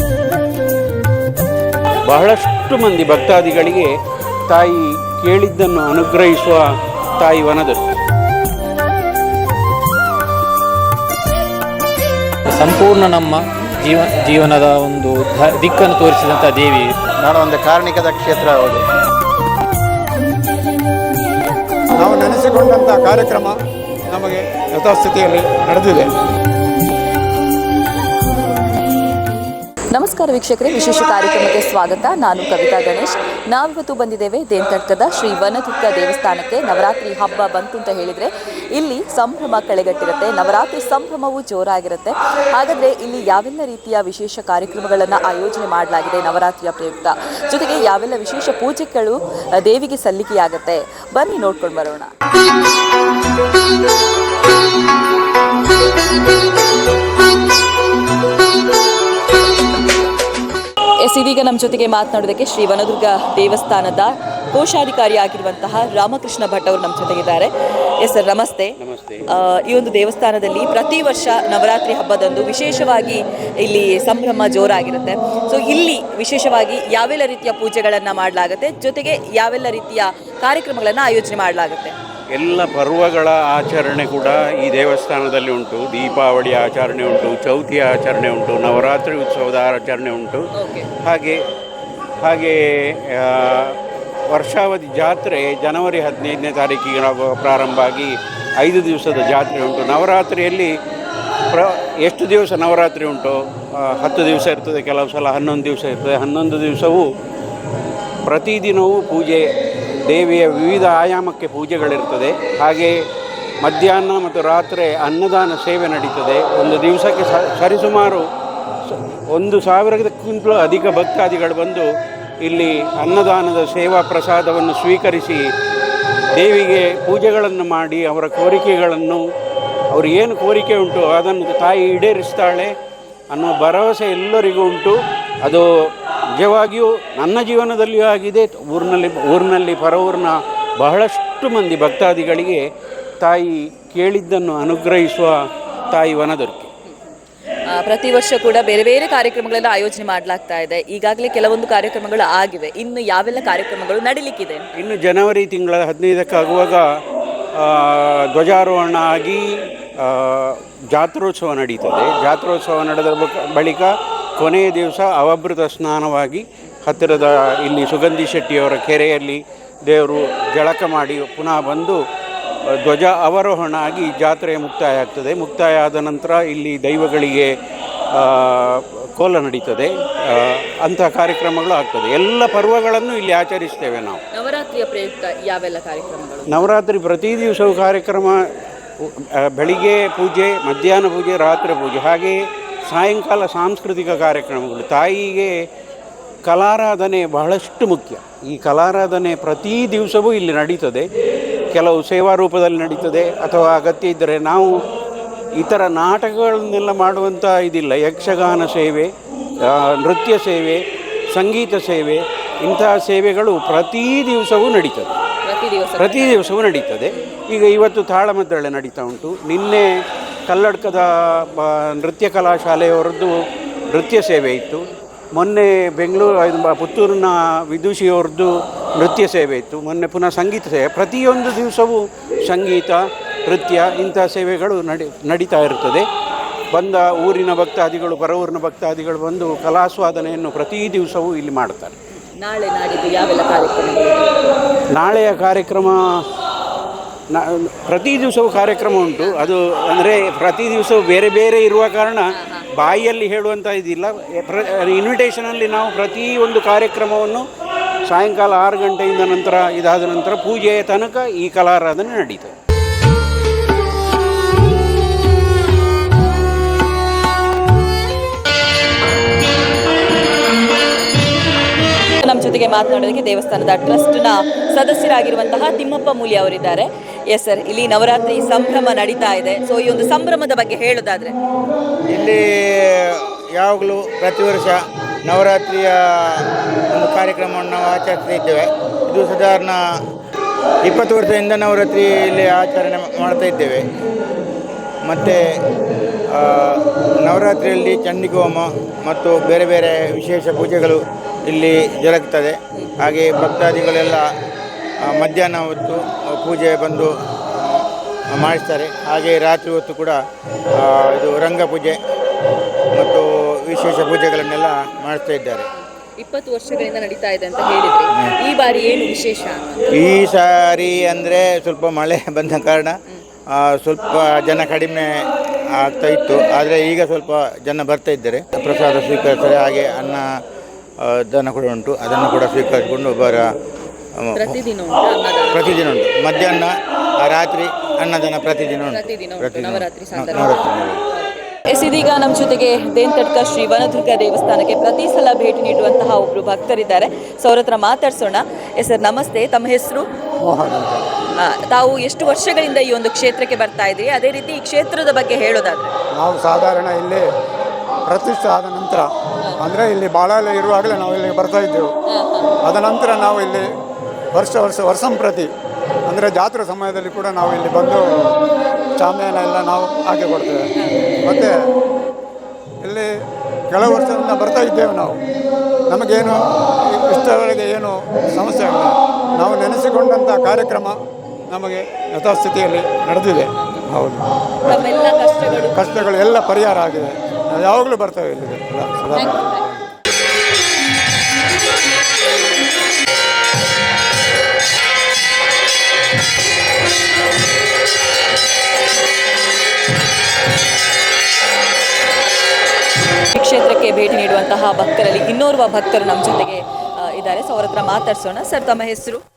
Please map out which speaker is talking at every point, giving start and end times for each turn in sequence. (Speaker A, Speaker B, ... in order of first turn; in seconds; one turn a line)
Speaker A: 2.1-3.9
Speaker A: 4.5-6.6
Speaker A: 7.2-7.8
Speaker B: 12.6-16.9
Speaker C: 22.0-23.6
Speaker C: 24.1-26.1
Speaker D: 29.9-52.1
Speaker D: 61.0-68.8
Speaker A: 68.8-69.2
Speaker D: 69.3-81.9
Speaker A: 82.3-90.5
Speaker D: 90.5-90.9
Speaker A: 91.0-91.4
Speaker A: 92.2-92.6
Speaker A: 93.1-93.8
Speaker A: 94.3-100.7
Speaker A: 101.5-107.1
Speaker A: 108.3-109.4
Speaker A: 110.1-112.9
Speaker A: 113.6-118.2
Speaker A: 118.9-121.9
Speaker A: 122.4-125.4
Speaker A: 126.3-129.2
Speaker A: 129.9-132.7
Speaker A: 133.3-135.7
Speaker A: 136.4-142.6
Speaker A: 143.2-145.3
Speaker A: 145.9-146.7
Speaker D: 147.7-154.7
Speaker A: 154.8-156.8
Speaker A: 157.6-159.4
Speaker A: 160.0-172.0
Speaker A: 172.8-177.5
Speaker A: 178.2-184.2
Speaker D: 184.3-186.7
Speaker A: 186.5-188.4
Speaker A: 189.0-195.5
Speaker A: 196.5-201.1
Speaker A: 201.7-204.7
Speaker A: 205.6-209.1
Speaker A: 209.7-210.8
Speaker A: 211.3-215.2
Speaker D: 215.4-216.5
Speaker A: 216.0-219.9
Speaker D: 217.1-217.4
Speaker A: 220.5-223.3
Speaker A: 223.9-224.9
Speaker A: 225.4-236.1
Speaker A: 236.7-242.0
Speaker D: 242.3-244.4
Speaker A: 245.0-246.0
Speaker A: 247.3-257.5
Speaker D: 249.2-249.5
Speaker D: 252.3-252.7
Speaker A: 258.1-262.5
Speaker D: 272.2-281.3
Speaker E: 282.1-289.8
Speaker E: 290.8-293.8
Speaker E: 295.0-295.4
Speaker E: 296.3-301.0
Speaker E: 301.5-304.2
Speaker E: 305.1-310.2
Speaker E: 310.8-312.0
Speaker E: 313.0-315.7
Speaker D: 316.2-319.8
Speaker E: 319.9-322.9
Speaker E: 323.6-325.1
Speaker E: 325.8-330.2
Speaker E: 331.0-333.4
Speaker D: 334.4-335.7
Speaker E: 335.5-341.0
Speaker D: 338.9-350.1
Speaker C: 350.4-351.1
Speaker D: 351.4-355.9
Speaker C: 356.1-357.3
Speaker C: 358.1-361.9
Speaker D: 362.1-362.5
Speaker C: 362.6-363.7
Speaker C: 364.3-365.5
Speaker C: 366.1-368.1
Speaker C: 369.0-370.7
Speaker C: 371.2-371.5
Speaker C: 372.8-373.1
Speaker C: 373.7-375.2
Speaker C: 375.9-381.0
Speaker C: 381.5-384.8
Speaker D: 384.7-386.3
Speaker C: 385.8-389.9
Speaker D: 389.2-389.6
Speaker D: 403.3-409.2